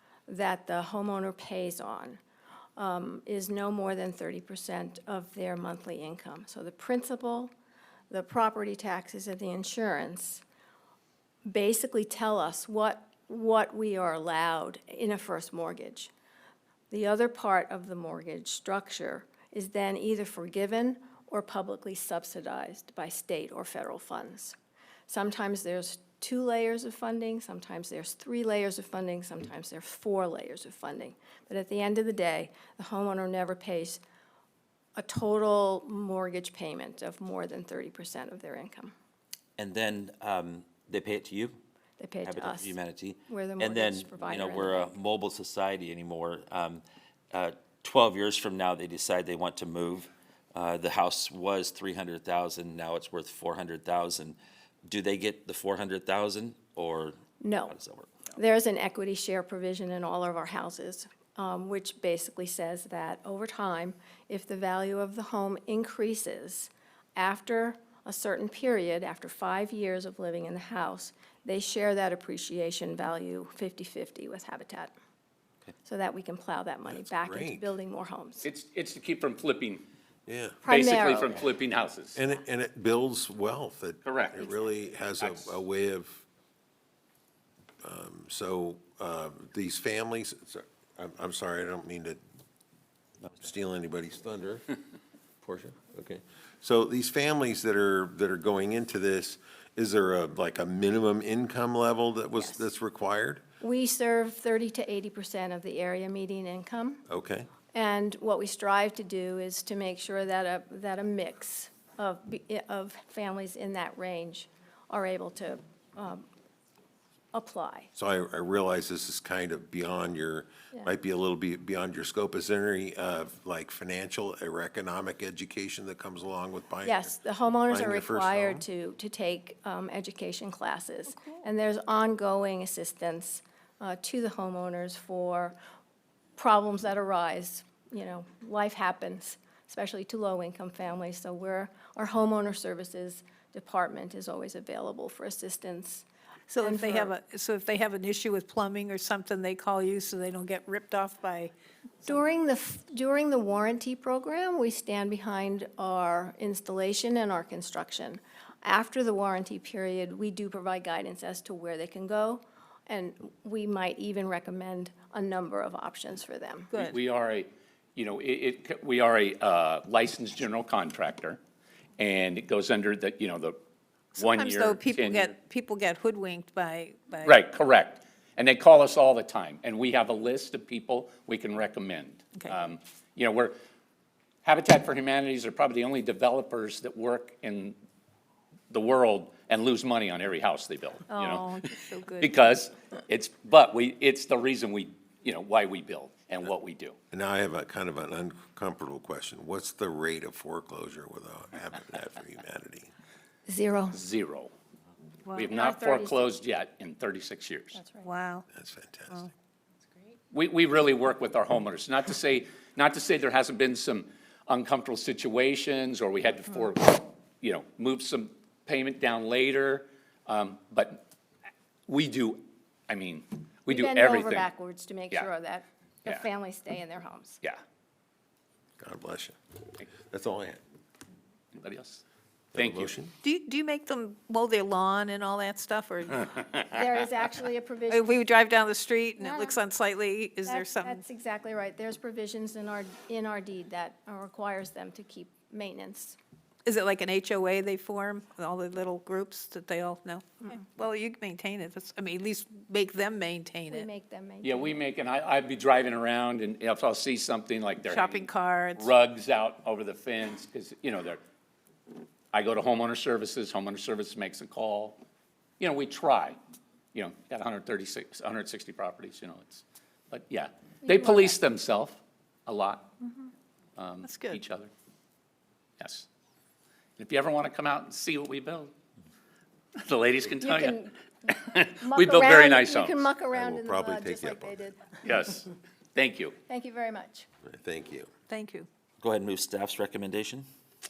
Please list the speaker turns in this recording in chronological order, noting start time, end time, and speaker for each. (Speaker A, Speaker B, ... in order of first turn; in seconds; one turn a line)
Speaker A: 0.3-2.2
Speaker A: 2.8-7.5
Speaker A: 8.1-10.4
Speaker A: 11.4-16.1
Speaker A: 16.9-24.6
Speaker A: 25.1-34.0
Speaker A: 35.0-38.9
Speaker B: 39.6-41.6
Speaker A: 42.0-42.8
Speaker B: 42.2-58.1
Speaker A: 43.3-44.9
Speaker A: 57.4-57.8
Speaker A: 58.3-74.9
Speaker A: 75.8-78.5
Speaker C: 76.9-77.7
Speaker D: 78.4-79.8
Speaker C: 80.3-80.6
Speaker A: 80.6-81.5
Speaker D: 80.7-82.2
Speaker C: 82.1-86.2
Speaker D: 84.0-84.5
Speaker D: 85.2-85.5
Speaker C: 87.8-92.2
Speaker C: 93.3-94.7
Speaker C: 95.4-103.4
Speaker A: 103.6-107.0
Speaker C: 107.1-107.5
Speaker A: 107.7-116.2
Speaker A: 117.3-117.9
Speaker C: 117.9-127.1
Speaker A: 126.8-135.5
Speaker C: 127.7-128.6
Speaker A: 136.4-146.1
Speaker E: 146.5-151.5
Speaker A: 146.6-147.1
Speaker A: 152.0-166.7
Speaker E: 166.7-167.0
Speaker D: 166.7-171.4
Speaker D: 172.0-173.6
Speaker D: 174.2-175.3
Speaker E: 174.2-177.4
Speaker D: 177.2-183.5
Speaker D: 184.4-187.7
Speaker D: 188.7-191.6
Speaker E: 191.1-192.3
Speaker D: 192.2-196.9
Speaker C: 197.1-202.9
Speaker A: 203.5-204.0
Speaker D: 203.9-204.5
Speaker D: 205.3-207.8
Speaker A: 205.5-206.3
Speaker A: 207.7-208.1
Speaker E: 208.0-208.4
Speaker C: 208.5-209.3
Speaker D: 210.3-221.0
Speaker D: 221.9-224.5
Speaker A: 223.7-227.4
Speaker C: 228.8-229.4
Speaker C: 230.1-230.6
Speaker D: 231.5-232.0
Speaker C: 232.5-233.1
Speaker D: 232.6-232.9
Speaker E: 233.2-236.6
Speaker A: 236.7-238.2
Speaker E: 237.9-241.0
Speaker A: 239.2-239.6
Speaker A: 240.4-246.2
Speaker E: 246.6-253.9
Speaker A: 253.7-254.7
Speaker D: 254.4-261.2
Speaker E: 257.9-258.9
Speaker D: 262.3-265.0
Speaker D: 265.6-266.4
Speaker D: 266.9-273.0
Speaker A: 270.8-271.4
Speaker D: 273.8-274.7
Speaker E: 274.0-274.4
Speaker D: 275.8-276.1
Speaker D: 277.0-278.7
Speaker D: 279.8-283.1
Speaker A: 280.4-280.9
Speaker A: 281.8-284.9
Speaker C: 283.3-284.6
Speaker D: 285.0-286.4
Speaker A: 286.5-287.3
Speaker C: 287.4-288.1
Speaker E: 288.3-288.7
Speaker B: 289.0-290.4